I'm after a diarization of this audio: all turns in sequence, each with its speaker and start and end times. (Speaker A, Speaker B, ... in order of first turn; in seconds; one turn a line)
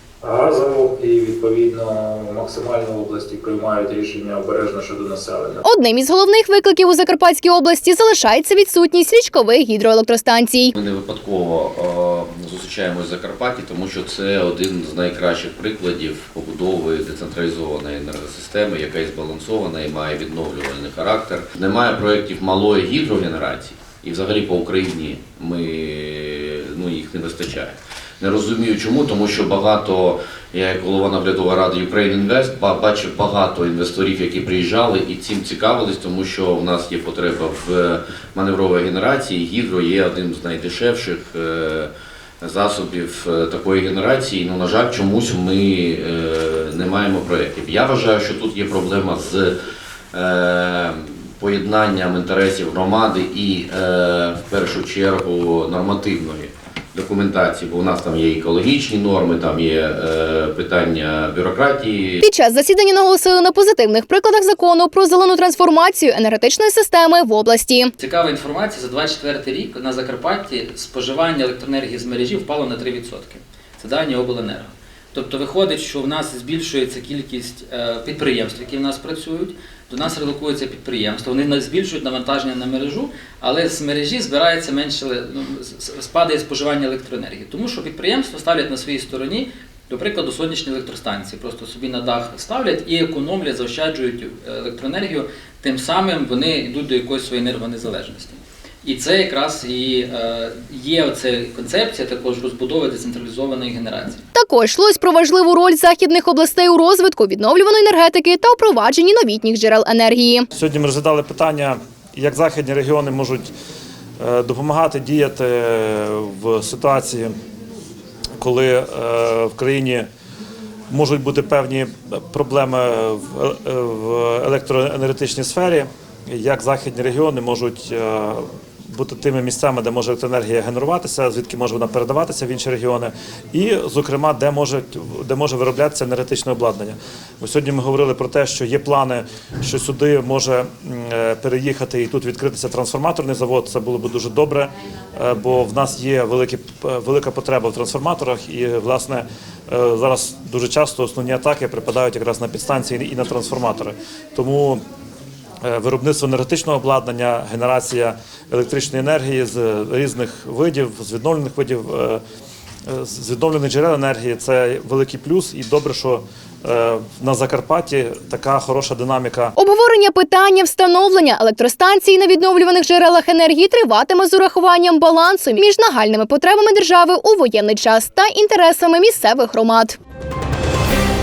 Speaker A: 0.2-5.7
Speaker B: 5.6-10.8
Speaker C: 10.8-41.9
Speaker C: 42.4-49.5
Speaker C: 50.1-62.2
Speaker B: 62.2-67.9
Speaker D: 68.0-104.2
Speaker B: 104.3-110.5
Speaker E: 110.5-113.5
Speaker E: 114.2-117.3
Speaker E: 118.4-120.1
Speaker E: 120.9-154.8
Speaker E: 155.6-162.2
Speaker E: 162.9-169.5
Speaker B: 169.6-180.0